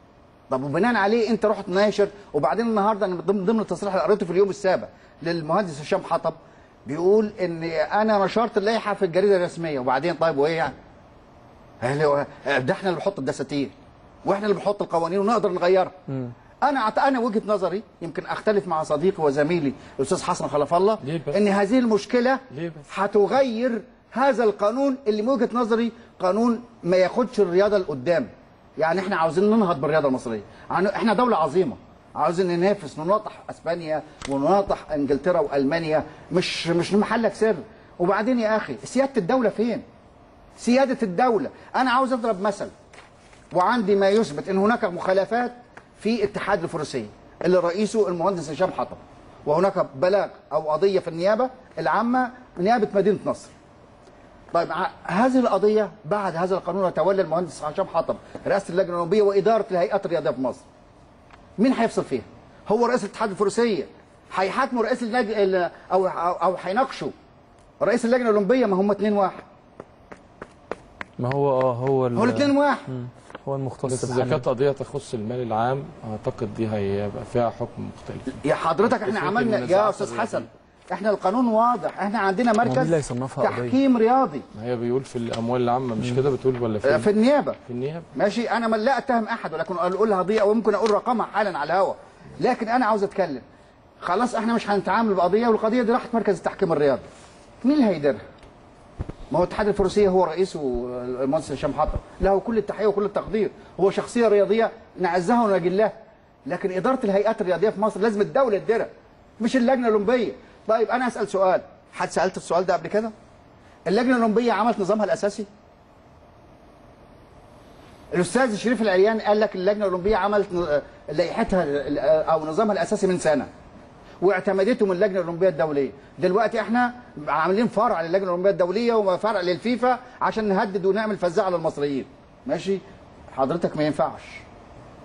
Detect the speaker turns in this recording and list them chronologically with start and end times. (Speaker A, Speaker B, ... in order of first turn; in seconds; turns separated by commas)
Speaker A: 0.5-10.8, Speaker A: 11.8-13.7, Speaker A: 14.2-15.9, Speaker A: 16.6-39.8, Speaker B: 21.0-21.4, Speaker B: 22.5-22.9, Speaker A: 40.6-42.7, Speaker A: 43.5-53.5, Speaker A: 54.5-60.6, Speaker A: 61.6-67.1, Speaker A: 67.8-69.5, Speaker C: 71.2-74.4, Speaker A: 72.2-72.8, Speaker B: 73.9-80.5, Speaker A: 78.4-84.4, Speaker C: 82.6-83.8, Speaker B: 84.5-87.1, Speaker A: 86.8-87.6, Speaker B: 87.7-88.1, Speaker A: 88.2-93.4, Speaker A: 94.0-97.0, Speaker A: 97.6-98.2, Speaker A: 99.3-105.9, Speaker A: 106.5-113.1, Speaker A: 113.9-115.5, Speaker A: 118.1-123.5, Speaker A: 124.2-134.4